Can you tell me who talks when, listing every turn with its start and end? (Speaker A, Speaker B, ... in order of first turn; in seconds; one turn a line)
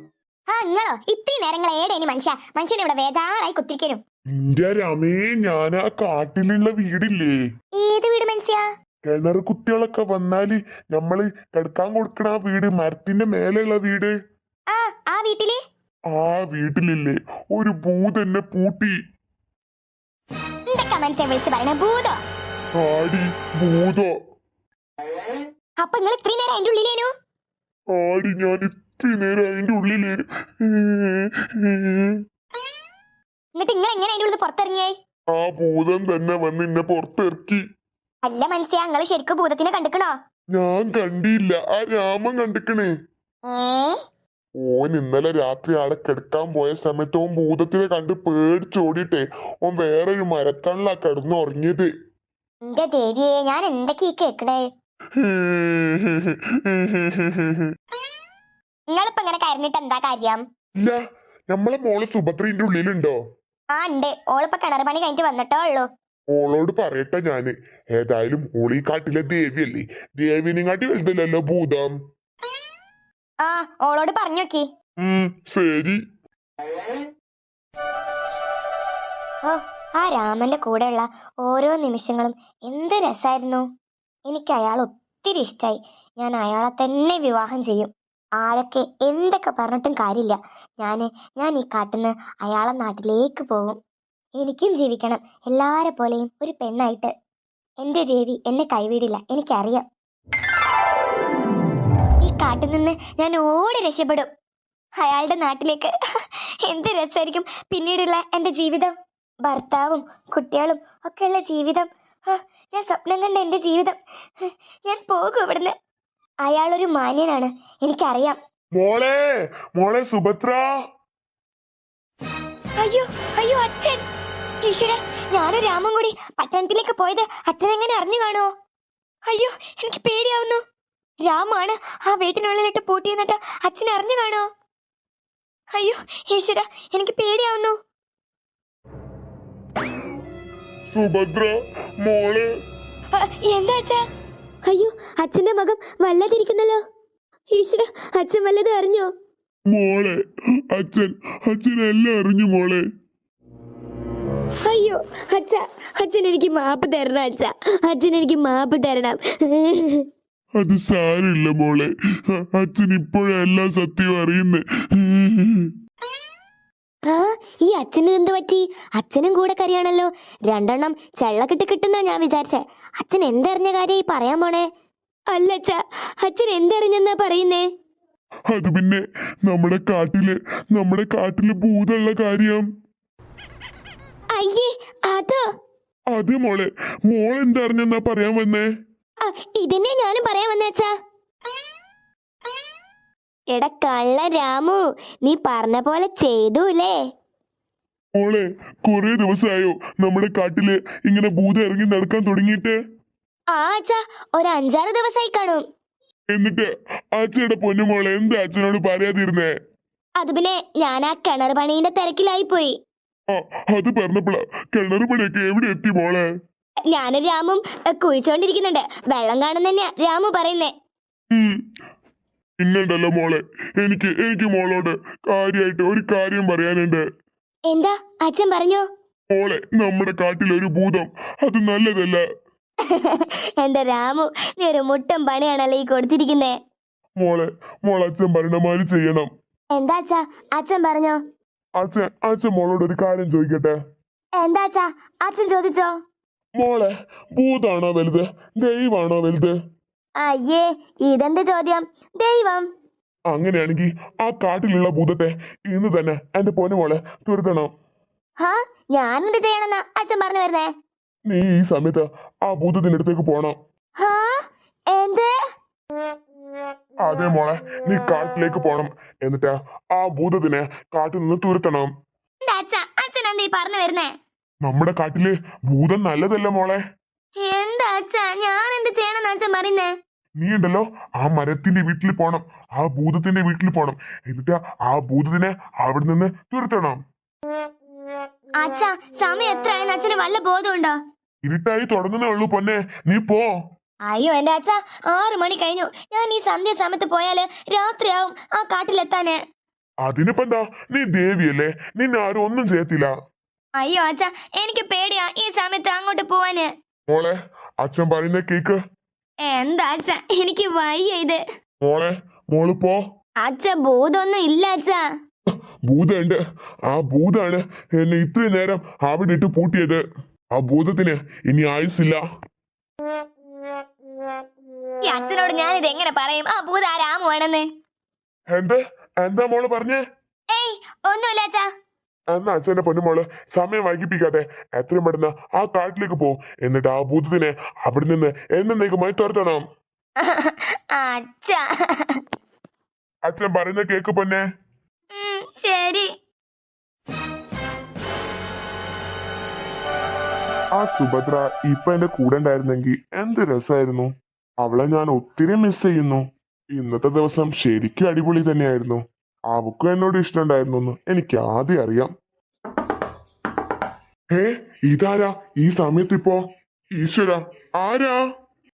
Speaker A: 0.5-4.0
Speaker B: 4.3-7.3
Speaker A: 7.8-8.7
Speaker B: 9.1-14.1
Speaker A: 14.7-15.6
Speaker B: 16.1-18.9
Speaker A: 20.7-22.2
Speaker B: 22.8-24.1
Speaker A: 25.8-27.1
Speaker B: 27.9-32.2
Speaker A: 33.6-35.0
Speaker B: 35.3-37.6
Speaker A: 38.2-40.2
Speaker B: 40.5-42.9
Speaker A: 43.5-44.0
Speaker B: 44.6-51.9
Speaker A: 52.7-54.7
Speaker B: 55.2-57.7
Speaker A: 58.9-60.4
Speaker B: 61.5-63.2
Speaker A: 63.8-65.9
Speaker B: 66.3-72.0
Speaker A: 73.4-74.7
Speaker B: 75.0-76.0
Speaker A: 79.5-83.7
Speaker A: 84.3-93.8
Speaker A: 94.4-97.1
Speaker A: 97.8-99.9
Speaker A: 102.2-104.3
Speaker A: 105.0-105.9
Speaker A: 106.7-109.0
Speaker A: 109.5-114.0
Speaker A: 114.9-115.7
Speaker A: 116.5-118.4
Speaker B: 118.8-120.6
Speaker A: 122.8-124.0
Speaker A: 124.6-128.5
Speaker A: 129.3-130.6
Speaker A: 131.2-134.5
Speaker A: 135.7-137.8
Speaker B: 140.9-142.5
Speaker A: 143.2-144.0
Speaker A: 144.7-146.8
Speaker A: 147.5-149.1
Speaker B: 149.7-150.2
Speaker B: 150.7-152.8
Speaker A: 154.7-160.0
Speaker B: 160.6-161.9
Speaker B: 162.5-165.7
Speaker A: 167.1-174.7
Speaker A: 175.3-177.7
Speaker B: 178.5-182.7
Speaker A: 184.3-185.4
Speaker B: 186.1-188.7
Speaker A: 189.2-190.9
Speaker A: 193.5-197.0
Speaker B: 198.2-202.8
Speaker A: 203.5-205.7
Speaker B: 206.3-209.5
Speaker A: 210.2-212.8
Speaker B: 213.3-216.2
Speaker A: 216.9-220.7
Speaker B: 221.3-221.6
Speaker B: 222.6-227.0
Speaker A: 227.7-228.9
Speaker B: 229.3-232.2
Speaker A: 232.9-236.6
Speaker B: 237.2-239.3
Speaker A: 239.7-241.2
Speaker B: 241.8-243.8
Speaker A: 244.4-245.9
Speaker B: 246.6-249.5
Speaker A: 250.2-252.7
Speaker B: 253.3-257.7
Speaker A: 258.4-260.7
Speaker B: 261.3-263.6
Speaker A: 264.0-265.3
Speaker B: 267.0-271.9
Speaker A: 272.4-274.1
Speaker B: 274.6-276.8
Speaker A: 277.4-279.9
Speaker B: 280.4-287.0
Speaker A: 288.6-291.0
Speaker B: 291.4-293.5
Speaker A: 294.1-299.4
Speaker B: 300.1-303.1
Speaker A: 303.8-306.7
Speaker B: 307.1-308.8
Speaker A: 309.4-311.4
Speaker B: 311.9-313.0
Speaker A: 313.4-315.1
Speaker B: 315.9-316.4
Speaker B: 316.9-320.0
Speaker B: 320.6-322.2
Speaker A: 325.0-327.7
Speaker B: 328.5-330.0
Speaker A: 330.5-331.7
Speaker B: 332.3-339.6
Speaker A: 340.2-342.2
Speaker B: 343.3-344.4
Speaker A: 345.1-346.1
Speaker B: 350.8-354.1
Speaker B: 354.6-356.2
Speaker B: 356.8-362.1
Speaker B: 364.3-366.4
Speaker B: 367.0-368.2